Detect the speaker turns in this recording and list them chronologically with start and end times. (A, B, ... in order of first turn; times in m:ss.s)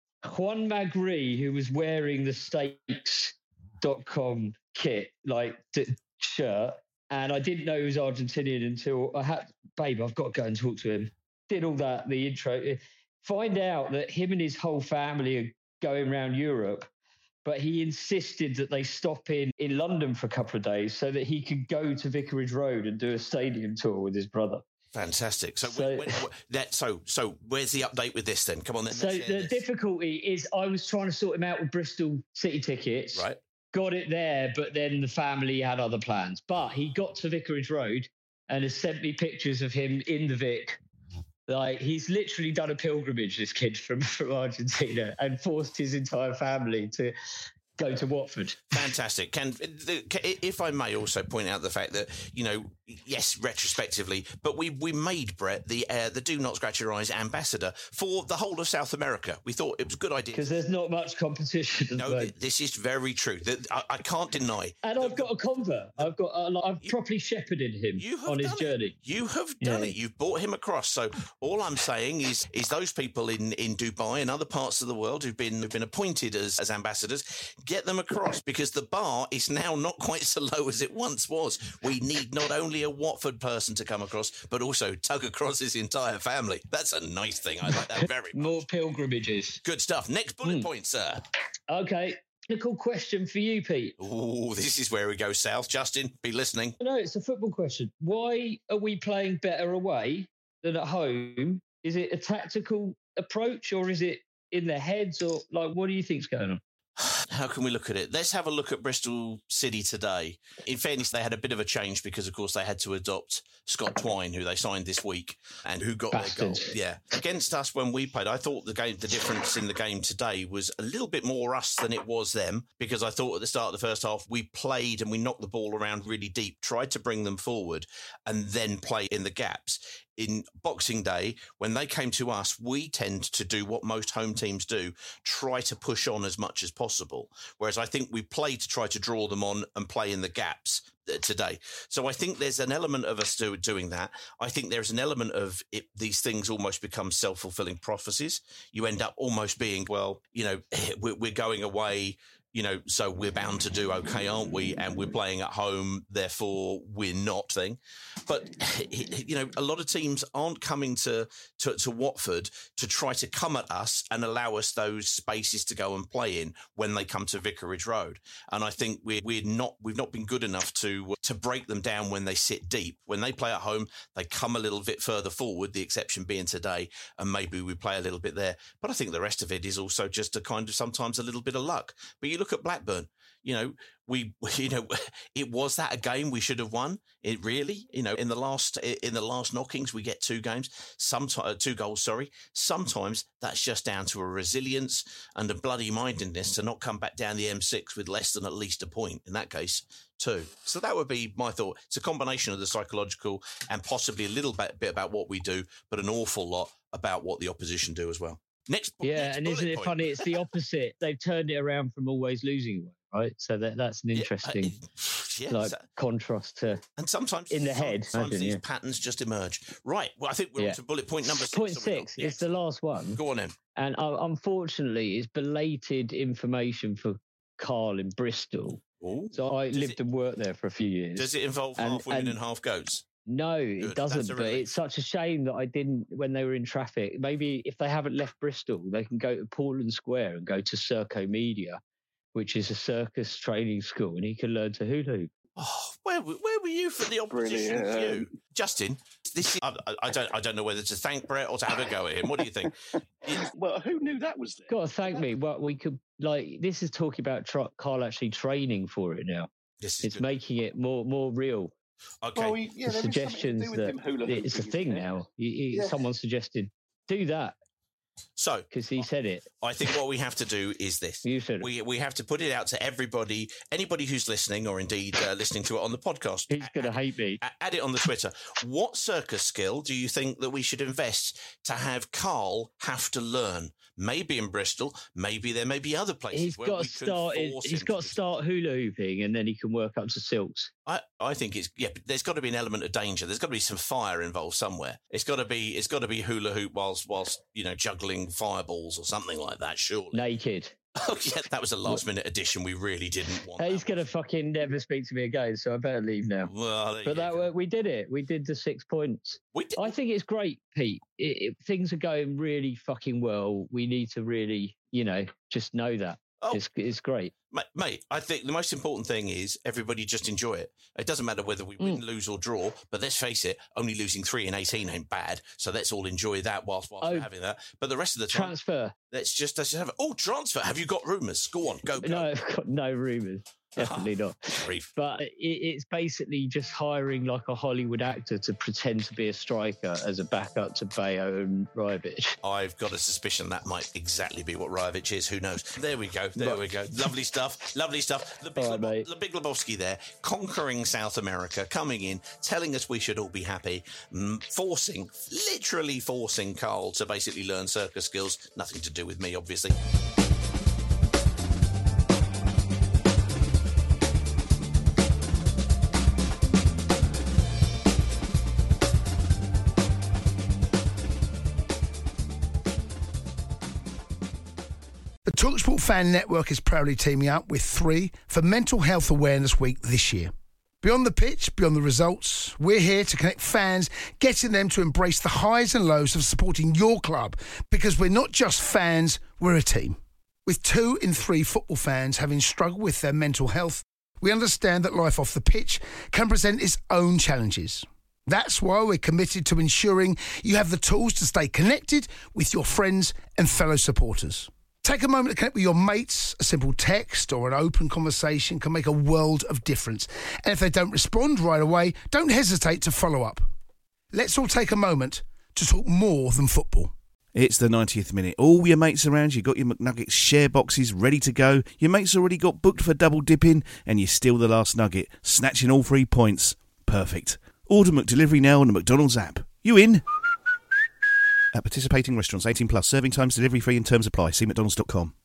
0:00.2-0:16.9 A
0:17.4-0:24.6 A
0:24.9-0:29.6 B
0:25.6-0:26.2 A
0:28.9-0:40.8 A
0:33.1-0:33.4 B
0:41.5-0:47.1 A
0:47.8-0:48.8 A
0:48.7-1:00.6 B
1:00.3-1:02.3 A
1:02.0-1:05.3 B
1:04.8-1:09.0 A
1:08.0-1:28.7 B
1:09.6-1:09.9 A
1:27.7-1:29.6 A
1:29.6-1:31.2 B
1:31.7-1:34.0 A
1:34.0-1:36.8 B
1:36.8-1:46.6 A
1:47.0-3:30.4 B
1:56.1-1:56.7 A
3:29.0-3:34.8 A
3:34.1-3:35.8 B
3:35.5-3:36.8 A
3:37.0-3:42.5 B
3:37.5-3:38.6 A
3:40.6-3:43.2 A
3:43.1-3:43.6 B
3:43.8-3:48.8 A
3:49.0-3:50.0 B
3:49.3-3:52.4 A
3:51.1-3:53.0 B
3:53.2-4:01.8 A
3:53.8-3:54.7 B
4:02.3-4:05.3 A
4:05.6-4:13.5 B
4:07.3-4:08.3 C
4:13.3-4:15.4 C
4:14.7-4:19.5 A
4:19.8-4:20.3 B
4:20.0-4:21.7 A
4:22.2-4:22.6 B
4:22.3-4:25.1 C
4:22.8-4:27.6 A
4:25.7-4:26.0 C
4:28.4-4:29.1 B
4:28.7-4:29.4 A
4:29.6-4:48.2 B
4:31.2-4:31.7 A
4:36.5-4:37.4 A
4:46.3-4:50.7 A
4:50.8-5:00.2 B
5:00.1-5:00.8 A
5:01.0-5:04.1 B
5:03.6-5:06.5 A
5:06.4-5:07.5 B
5:07.0-5:17.3 A
5:09.5-5:10.0 B
5:17.5-5:28.5 B
5:27.0-5:27.3 A
5:28.3-5:28.9 A
5:29.1-5:32.3 B
5:32.0-5:42.4 A
5:33.8-5:34.9 B
5:42.4-5:59.8 B
5:48.6-5:49.1 A
6:15.2-6:53.5 D
6:54.1-6:56.9 D
6:57.3-7:10.0 E
7:11.5-7:15.1 E